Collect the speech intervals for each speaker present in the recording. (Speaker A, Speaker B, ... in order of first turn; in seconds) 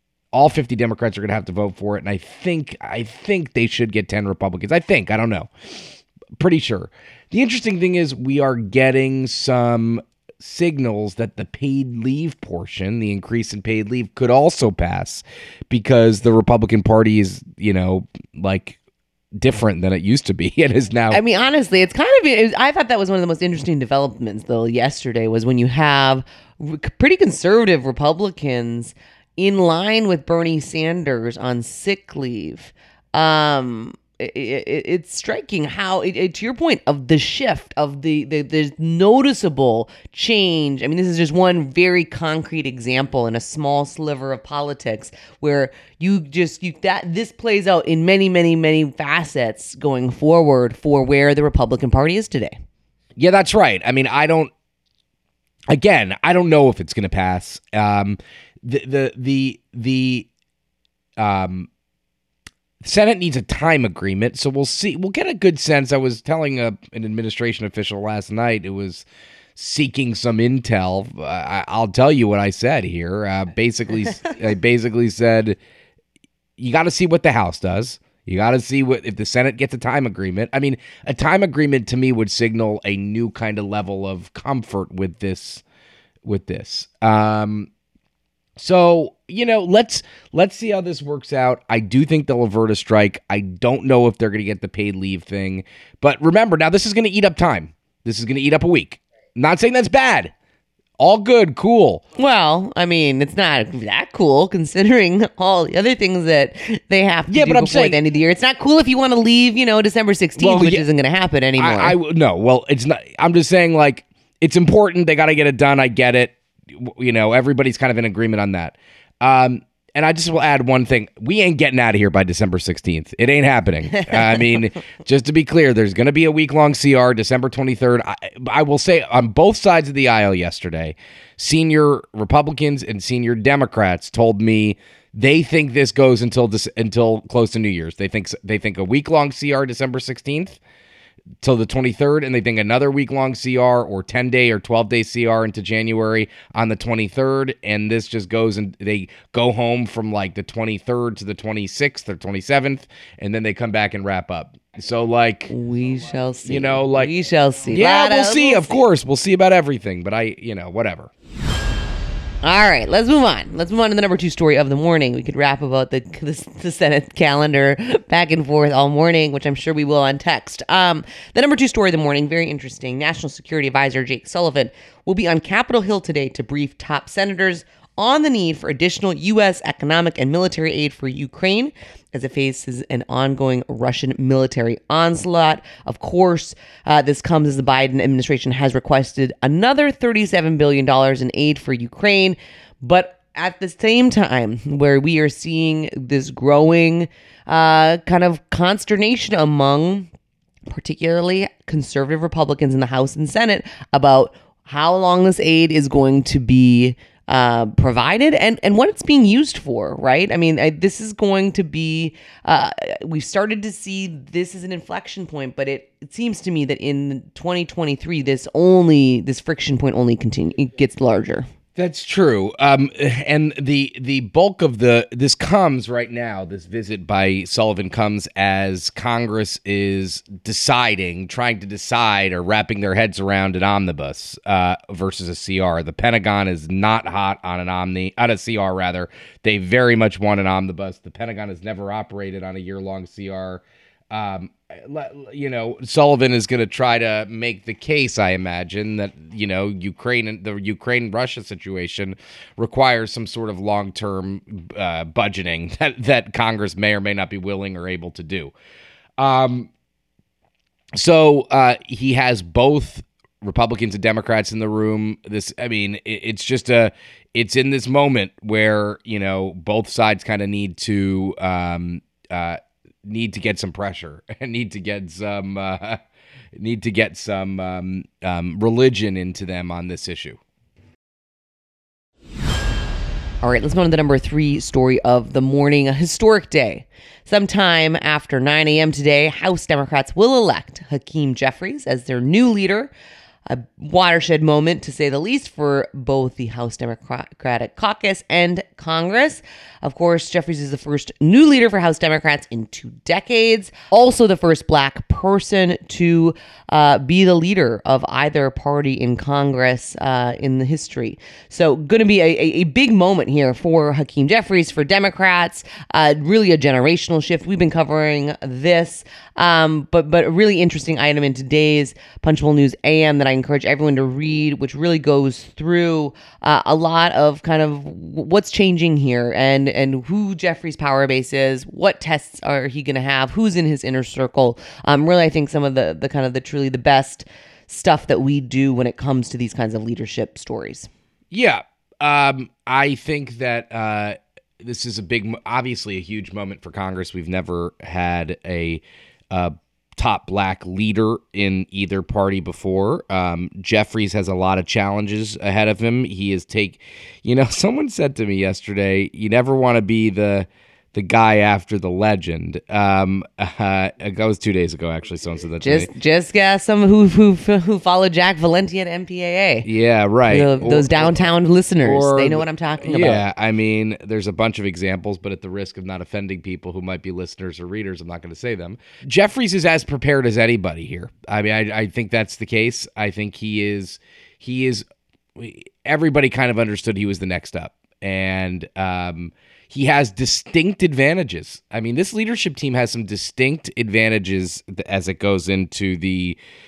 Speaker A: 0.3-5.5, 6.4-18.8, 19.4-21.2, 53.2-54.5, 55.7-60.3, 61.2-61.7, 62.8-75.6, 76.6-85.6, 86.2-87.7, 88.6-100.3, 101.0-102.0, 107.3-108.0, 110.4-110.8, 111.6-140.6, 141.4-155.5, 156.5-157.1, 157.7-161.1, 221.8-258.5, 259.2-259.7, 261.0-276.0, 276.6-280.4, 341.3-365.9, 369.6-371.3, 371.8-384.9, 385.4-396.4
Speaker B: 21.1-52.5, 102.2-112.0, 155.5-158.8, 162.4-200.1, 200.7-221.5, 283.4-292.9, 293.5-340.9, 365.6-369.7, 370.3-373.2